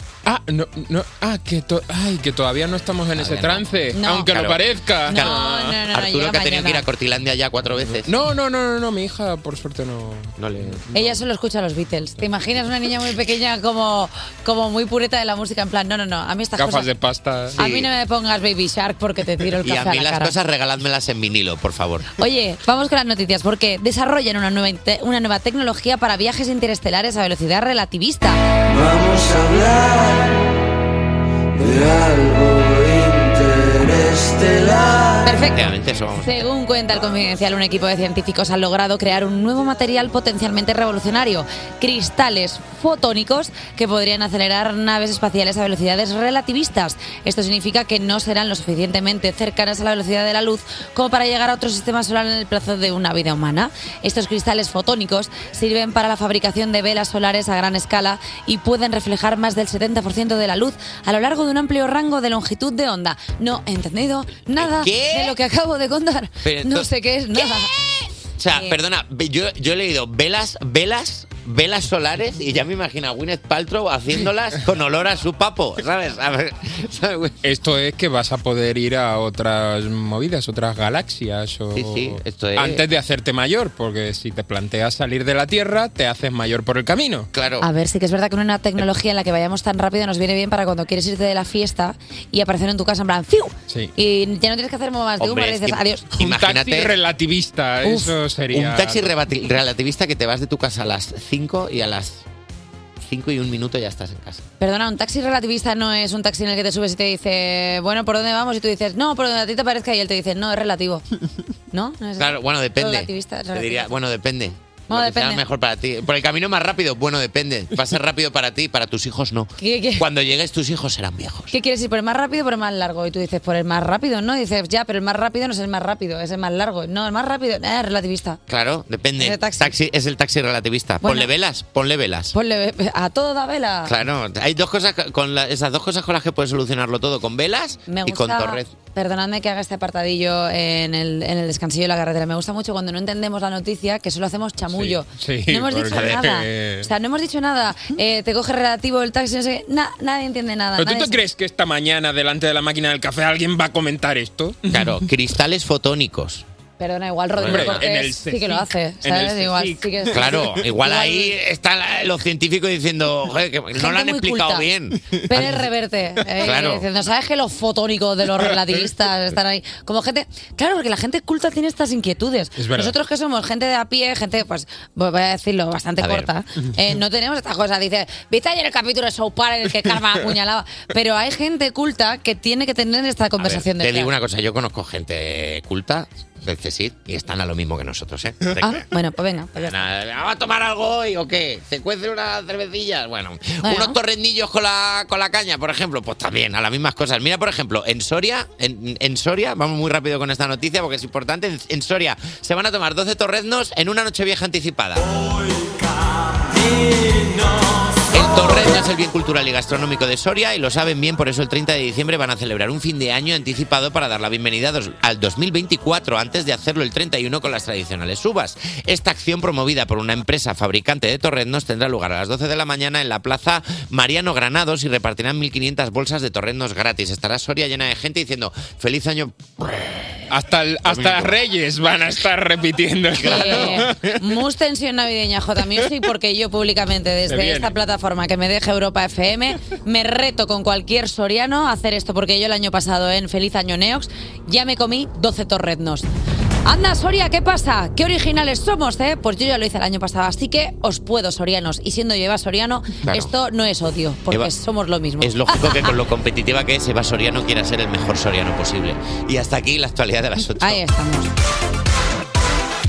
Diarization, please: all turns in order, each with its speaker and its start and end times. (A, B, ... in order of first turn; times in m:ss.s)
0:00.2-0:05.8 A
0:03.2-0:08.1 B
0:03.9-0:04.3 C
0:05.1-0:06.8 C
0:08.1-0:10.3 A
0:10.4-0:11.2 B
0:10.9-0:16.9 C
0:16.6-0:17.6 A
0:17.6-0:20.3 C
0:17.6-0:17.9 B
0:19.6-0:22.1 B
0:22.2-0:28.4 C
0:28.9-0:30.0 D
0:31.8-0:33.1 D
0:34.0-0:35.0 D
0:35.2-1:07.7 C
0:35.5-0:36.4 B
1:04.6-1:05.4 B
1:06.4-1:17.4 B
1:08.5-1:08.8 C
1:17.4-1:27.3 A
1:21.7-1:22.8 B
1:27.3-1:27.7 B
1:27.6-1:36.1 C
1:35.2-1:37.0 B
1:36.2-1:39.1 A
1:37.8-1:38.2 C
1:38.5-1:42.2 B
1:43.0-1:44.4 B
1:44.6-1:51.0 C
1:51.7-1:54.0 C
1:52.2-2:01.5 B
1:54.9-1:55.4 C
1:59.6-2:00.1 C
2:01.5-2:08.4 C
2:08.5-2:12.3 B
2:09.2-2:09.7 C
2:11.0-2:11.3 C
2:12.3-2:14.0 C
2:13.9-2:18.7 B
2:17.9-2:31.2 C
2:24.7-2:26.9 A
2:25.9-2:26.3 B
2:30.8-2:35.0 A
2:34.7-2:36.4 B
2:36.8-2:41.4 C
2:37.4-2:37.9 B
2:37.4-2:40.3 A
2:40.1-2:45.6 B
2:43.8-2:44.7 C
2:45.2-3:04.1 C
2:46.4-2:46.9 B
2:52.6-2:52.9 A
2:56.0-2:56.3 B
3:03.4-3:08.8 B
3:08.6-3:09.8 C
3:09.6-3:25.1 B
3:13.6-3:14.0 C
3:28.1-3:49.8 B
3:50.3-3:54.2 A
3:50.8-3:51.4 B
3:53.2-3:53.9 B
3:53.2-4:06.1 C
3:57.3-3:57.8 A
4:06.6-4:15.9 C
4:13.1-4:13.3 B
4:15.2-4:20.8 B
4:20.6-4:21.3 C